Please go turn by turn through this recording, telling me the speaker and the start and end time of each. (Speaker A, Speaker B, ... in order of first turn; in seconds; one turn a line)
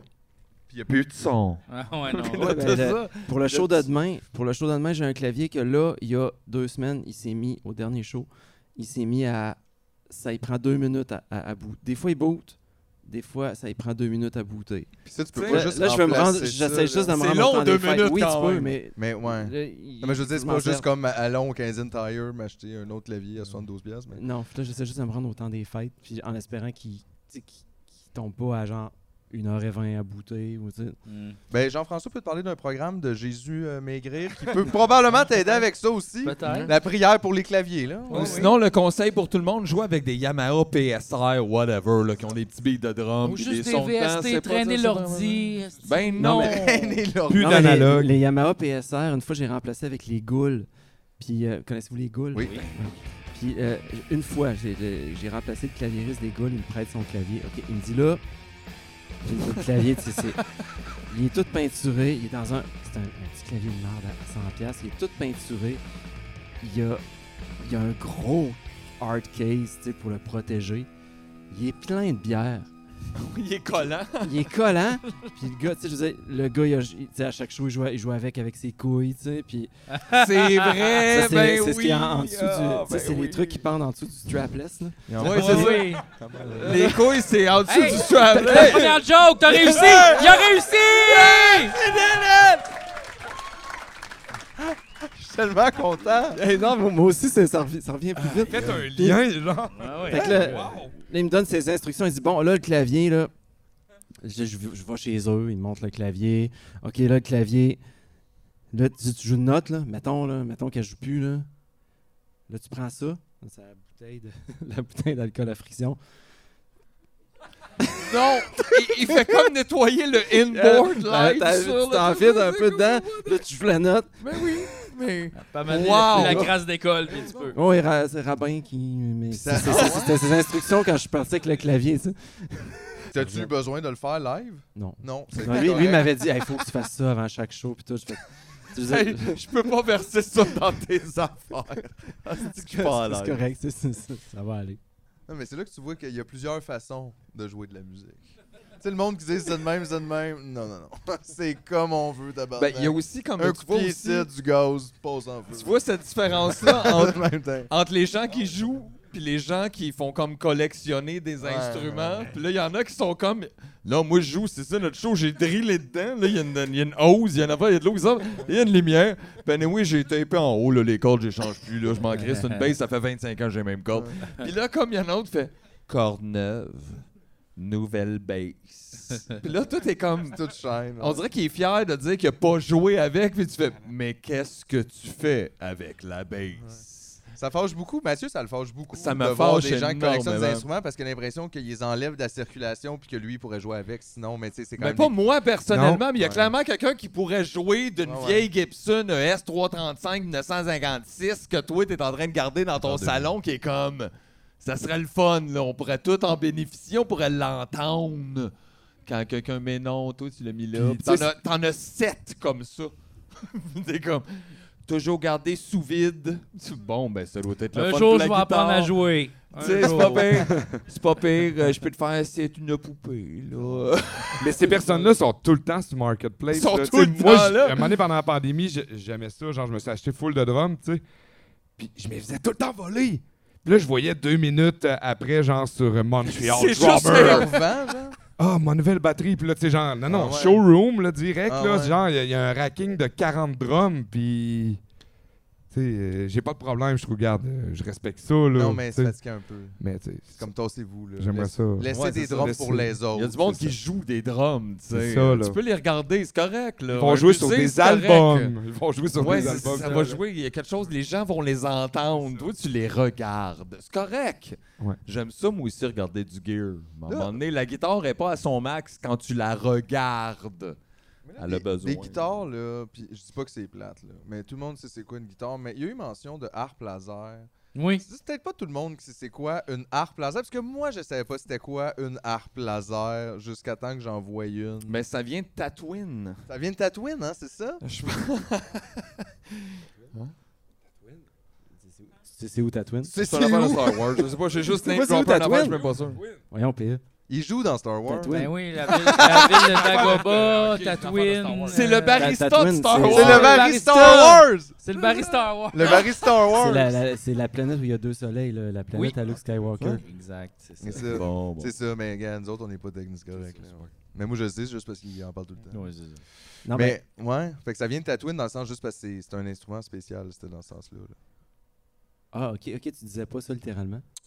Speaker A: 0.7-3.9
Speaker B: 1.7-2.8
Speaker C: 2.4-20.9
Speaker D: 15.1-17.1
Speaker A: 15.3-15.8
Speaker A: 17.1-18.8
Speaker D: 19.0-24.2
Speaker C: 24.1-31.0
Speaker B: 31.1-31.4
Speaker D: 31.5-38.5
Speaker B: 36.2-36.7
Speaker A: 36.4-36.7
Speaker B: 38.1-38.5
Speaker A: 38.1-46.7
Speaker B: 43.2-46.7
Speaker C: 46.2-46.7
Speaker D: 46.2-47.7
Speaker E: 47.3-48.1
Speaker C: 47.3-50.7
Speaker C: 51.2-58.2
Speaker D: 52.3-52.6
Speaker B: 52.4-52.7
Speaker C: 59.2-60.4
Speaker C: 61.1-65.8
Speaker C: 66.6-67.0
Speaker C: 67.6-70.9
Speaker C: 71.5-72.7
Speaker A: 73.2-74.5
Speaker C: 74.2-79.7
Speaker B: 79.9-80.9
Speaker A: 80.1-83.6
Speaker C: 81.0-85.6
Speaker D: 85.1-86.9
Speaker A: 85.2-89.0
Speaker B: 85.2-86.1
Speaker B: 87.7-91.8
Speaker C: 88.4-88.7
Speaker D: 89.5-90.2
Speaker A: 89.8-90.2
Speaker A: 91.0-92.6
Speaker D: 94.6-96.4
Speaker C: 96.4-99.2
Speaker E: 98.5-100.9
Speaker B: 99.7-100.8
Speaker C: 100.1-103.3
Speaker C: 104.2-107.8
Speaker C: 108.7-111.5
Speaker C: 112.5-116.0
Speaker C: 117.8-119.4
Speaker A: 118.0-123.5
Speaker C: 120.3-124.1
Speaker A: 124.2-126.5
Speaker B: 125.3-127.6
Speaker D: 126.2-126.5
Speaker A: 127.1-127.4
Speaker C: 127.5-133.5
Speaker D: 129.3-130.3
Speaker A: 129.7-129.9
Speaker D: 133.1-136.2
Speaker C: 134.8-139.4
Speaker A: 135.6-136.0
Speaker A: 138.8-143.4
Speaker C: 142.6-144.8
Speaker D: 145.3-148.3
Speaker D: 148.8-155.7
Speaker A: 152.6-154.3
Speaker A: 155.5-177.0
Speaker D: 156.3-157.7
Speaker D: 161.4-162.3
Speaker B: 172.1-172.7
Speaker A: 177.6-180.4
Speaker D: 180.3-181.2
Speaker A: 181.0-187.2
Speaker D: 187.3-195.1
Speaker A: 188.9-190.7
Speaker A: 194.8-208.5
Speaker E: 195.7-196.4
Speaker D: 196.2-196.4
Speaker D: 198.0-198.5
Speaker D: 202.8-203.3
Speaker A: 209.1-212.9
Speaker E: 210.7-211.3
Speaker A: 213.4-214.3
Speaker A: 214.9-218.9
Speaker B: 217.7-220.5
Speaker A: 219.4-224.4
Speaker E: 220.5-220.8
Speaker E: 224.4-231.0
Speaker B: 224.7-225.1
Speaker A: 226.5-227.9
Speaker E: 231.8-237.5
Speaker A: 236.3-237.7
Speaker D: 236.9-238.2
Speaker E: 238.4-244.8
Speaker D: 240.1-240.6
Speaker D: 241.5-242.0
Speaker E: 245.7-249.2
Speaker D: 248.5-249.8
Speaker E: 249.8-250.5
Speaker D: 250.3-253.6
Speaker E: 251.2-253.7
Speaker A: 251.9-252.6
Speaker A: 253.1-258.5
Speaker E: 254.9-255.6
Speaker E: 256.9-260.2
Speaker A: 259.2-270.8
Speaker D: 259.4-260.1
Speaker D: 267.1-267.4
Speaker D: 271.2-277.5
Speaker A: 271.4-272.4
Speaker B: 277.8-278.1
Speaker D: 278.0-285.0
Speaker A: 284.9-286.4
Speaker D: 286.5-287.8
Speaker A: 287.8-290.3
Speaker C: 291.8-293.1
Speaker D: 293.1-294.4
Speaker A: 293.2-296.2
Speaker C: 294.6-295.8
Speaker C: 296.5-297.0
Speaker D: 297.3-298.5
Speaker C: 298.1-298.5
Speaker B: 298.3-302.3
Speaker D: 299.1-299.9
Speaker A: 299.2-303.6
Speaker C: 302.2-303.9
Speaker D: 303.0-304.8
Speaker B: 303.1-306.1
Speaker D: 305.7-307.0
Speaker C: 306.5-310.0
Speaker B: 308.9-309.2
Speaker B: 310.1-311.1
Speaker D: 310.8-315.8
Speaker A: 311.1-311.7
Speaker B: 315.7-316.2
Speaker C: 316.7-317.0
Speaker D: 316.7-321.2
Speaker C: 322.3-324.0